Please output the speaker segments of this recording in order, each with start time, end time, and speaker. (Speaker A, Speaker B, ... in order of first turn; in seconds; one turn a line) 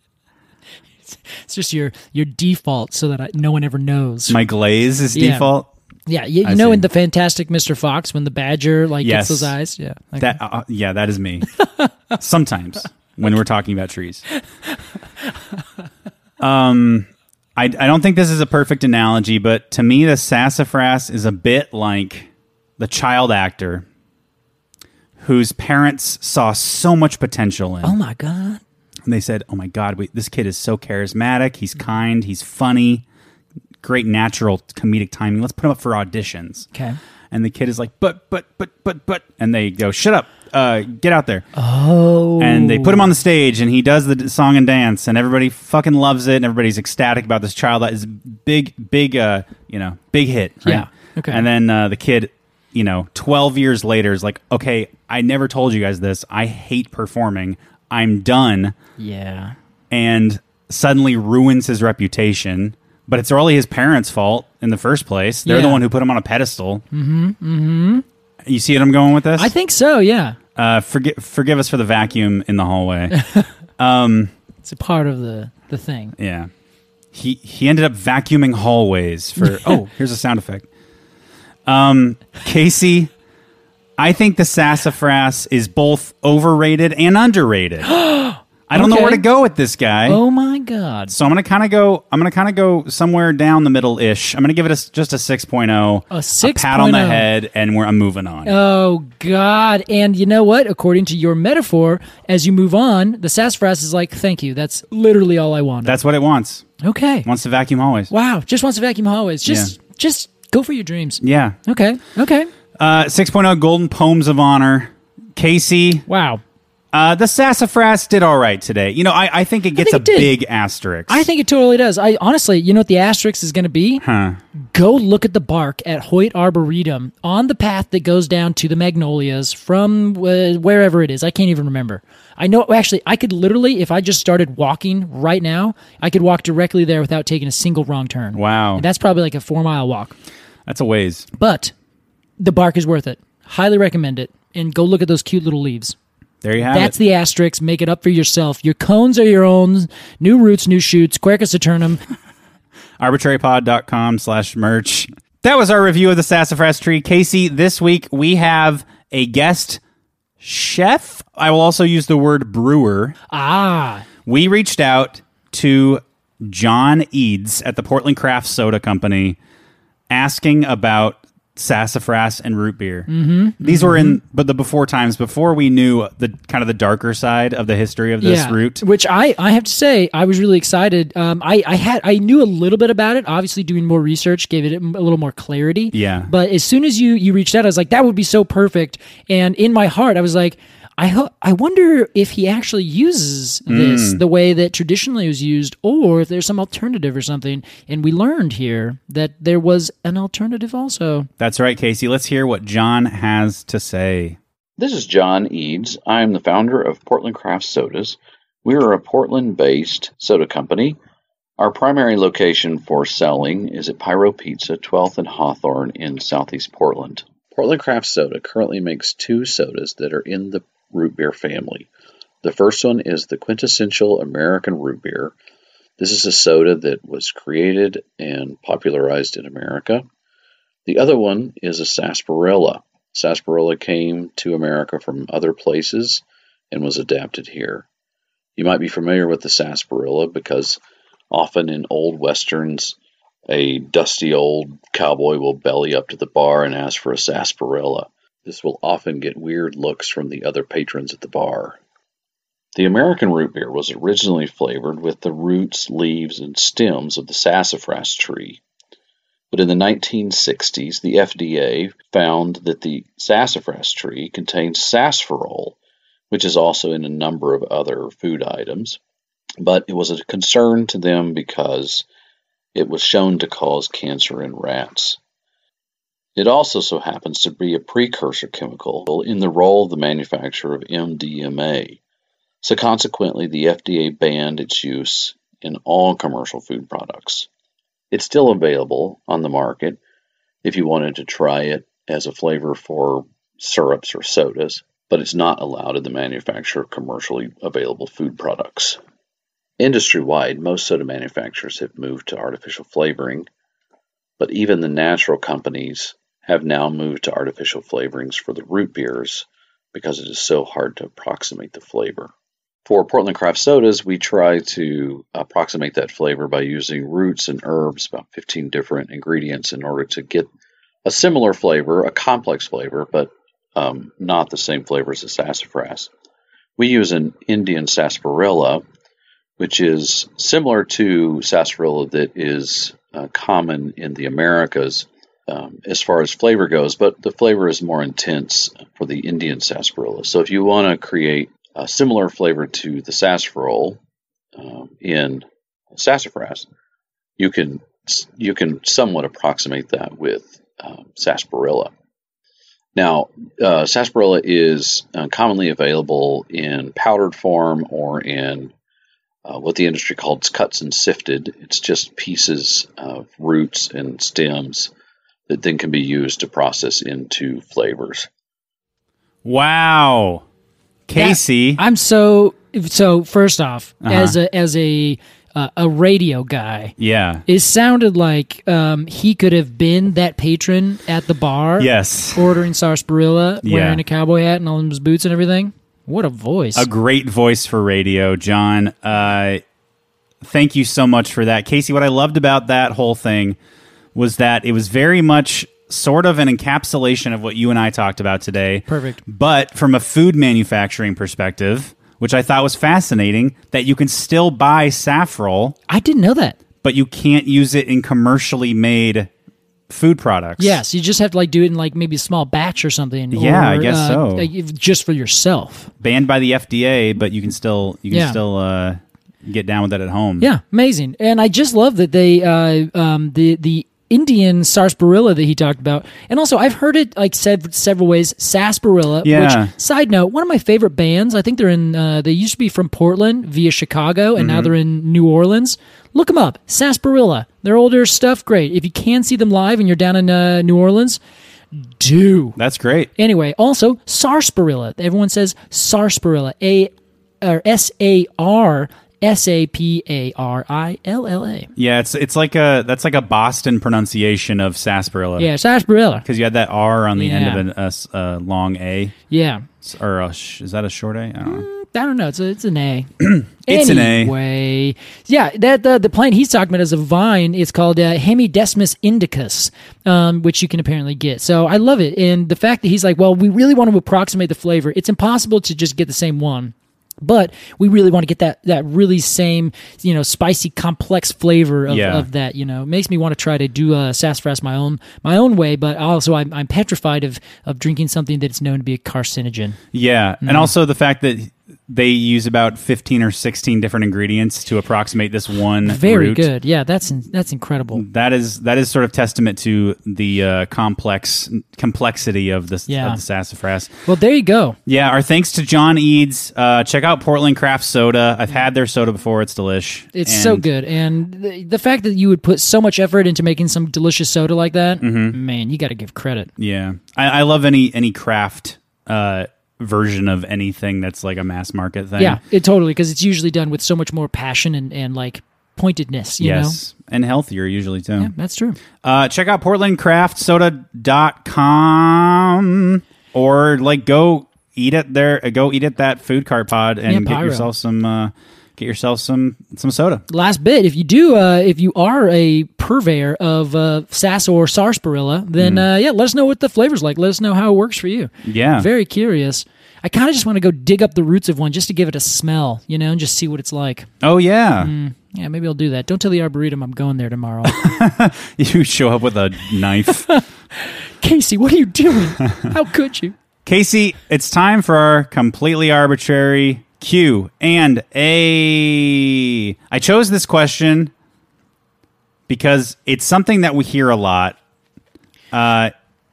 Speaker A: 1.1-4.4
Speaker B: 4.3-5.7
Speaker A: 5.1-5.5
Speaker A: 6.1-10.4
Speaker B: 6.4-6.8
Speaker B: 9.0-9.5
Speaker B: 10.2-11.5
Speaker B: 12.1-14.2
Speaker B: 16.4-23.8
Speaker B: 25.2-27.9
Speaker A: 27.8-28.6
Speaker B: 29.1-33.0
Speaker B: 33.8-36.7
Speaker A: 36.7-37.0
Speaker B: 37.3-41.5
Speaker A: 41.5-43.1
Speaker B: 42.4-58.8
Speaker A: 50.6-51.4
Speaker A: 59.0-59.5
Speaker B: 59.9-66.8
Speaker A: 65.4-65.8
Speaker A: 66.9-68.0
Speaker B: 68.4-69.5
Speaker A: 69.3-70.4
Speaker B: 70.5-73.2
Speaker A: 73.1-73.4
Speaker B: 73.8-74.3
Speaker A: 74.6-76.1
Speaker B: 76.2-76.5
Speaker B: 77.1-80.7
Speaker A: 79.4-79.8
Speaker B: 81.7-83.1
Speaker B: 84.0-87.9
Speaker A: 87.8-89.2
Speaker B: 88.7-90.2
Speaker A: 90.0-91.1
Speaker B: 91.1-98.5
Speaker A: 96.1-97.3
Speaker A: 98.5-106.0
Speaker B: 105.8-106.7
Speaker A: 106.8-107.2
Speaker B: 107.2-108.1
Speaker A: 108.1-112.5
Speaker B: 109.5-109.7
Speaker B: 111.2-111.6
Speaker B: 112.8-116.0
Speaker A: 116.1-116.4
Speaker B: 116.9-121.2
Speaker A: 119.8-120.3
Speaker A: 121.1-124.0
Speaker B: 124.0-124.4
Speaker A: 124.6-140.1
Speaker B: 138.3-138.8
Speaker B: 140.7-141.3
Speaker A: 141.4-141.7
Speaker A: 142.4-145.9
Speaker B: 146.4-146.9
Speaker A: 146.6-152.0
Speaker B: 153.0-159.8
Speaker B: 160.4-163.2
Speaker A: 163.3-164.0
Speaker B: 164.2-169.4
Speaker B: 170.1-173.1
Speaker A: 173.1-174.2
Speaker B: 173.6-178.8
Speaker A: 178.2-201.3
Speaker B: 185.9-186.3
Speaker B: 193.7-194.2
Speaker B: 201.4-204.4
Speaker C: 204.8-211.0
Speaker C: 211.6-221.9
Speaker C: 222.4-225.3
Speaker C: 226.0-230.0
Speaker C: 230.8-237.8
Speaker C: 238.6-240.8
Speaker C: 241.3-242.9
Speaker C: 243.5-251.8
Speaker C: 252.7-258.6
Speaker C: 259.5-265.8
Speaker C: 266.3-269.0
Speaker C: 269.6-272.0
Speaker C: 272.7-275.2
Speaker C: 276.4-282.0
Speaker C: 282.6-287.5
Speaker C: 288.1-290.0
Speaker C: 290.6-299.0
Speaker C: 299.8-303.5
Speaker C: 304.4-312.3
Speaker C: 312.8-320.5
Speaker C: 321.0-326.1
Speaker C: 326.8-328.8
Speaker C: 329.6-344.0
Speaker C: 344.5-346.7
Speaker C: 347.4-351.9
Speaker C: 352.9-358.7
Speaker C: 359.4-364.9
Speaker C: 365.5-368.3
Speaker B: 369.4-370.4
Speaker B: 371.1-371.8
Speaker A: 371.1-376.9
Speaker B: 374.0-374.4
Speaker B: 377.0-377.4
Speaker A: 377.5-386.9
Speaker B: 381.8-382.5
Speaker B: 383.6-384.0
Speaker B: 386.7-389.6
Speaker B: 390.4-393.6
Speaker B: 394.1-405.8
Speaker A: 398.9-399.2
Speaker A: 405.9-406.6
Speaker B: 406.8-409.3
Speaker B: 409.9-410.8
Speaker A: 410.6-415.9
Speaker B: 413.3-414.5
Speaker B: 416.0-420.5
Speaker A: 418.1-418.4
Speaker A: 420.4-441.2
Speaker B: 429.2-429.7
Speaker B: 434.4-434.7
Speaker A: 441.8-442.6
Speaker B: 442.6-443.1
Speaker A: 443.2-451.7
Speaker B: 451.8-455.5
Speaker A: 455.4-456.2
Speaker B: 456.2-459.1
Speaker A: 457.1-457.6
Speaker A: 459.3-459.7
Speaker B: 459.8-461.7
Speaker A: 461.4-463.1
Speaker B: 463.2-464.3
Speaker A: 463.6-489.8
Speaker B: 481.9-482.3
Speaker B: 489.9-496.5
Speaker A: 490.4-490.7
Speaker A: 495.8-498.0
Speaker B: 497.9-503.9
Speaker A: 502.9-503.2
Speaker A: 504.1-504.8
Speaker B: 504.9-510.6
Speaker A: 510.1-516.5
Speaker B: 515.0-515.4
Speaker B: 516.6-522.4
Speaker A: 522.2-526.8
Speaker B: 526.4-528.3
Speaker A: 528.2-528.8
Speaker B: 529.0-540.2
Speaker A: 537.1-537.7
Speaker A: 540.3-554.1
Speaker B: 545.6-545.9
Speaker B: 548.4-548.9
Speaker B: 554.2-554.9
Speaker A: 554.8-558.0
Speaker B: 557.7-560.3
Speaker A: 560.2-563.3
Speaker B: 563.6-571.1
Speaker B: 572.5-574.6
Speaker B: 575.5-575.9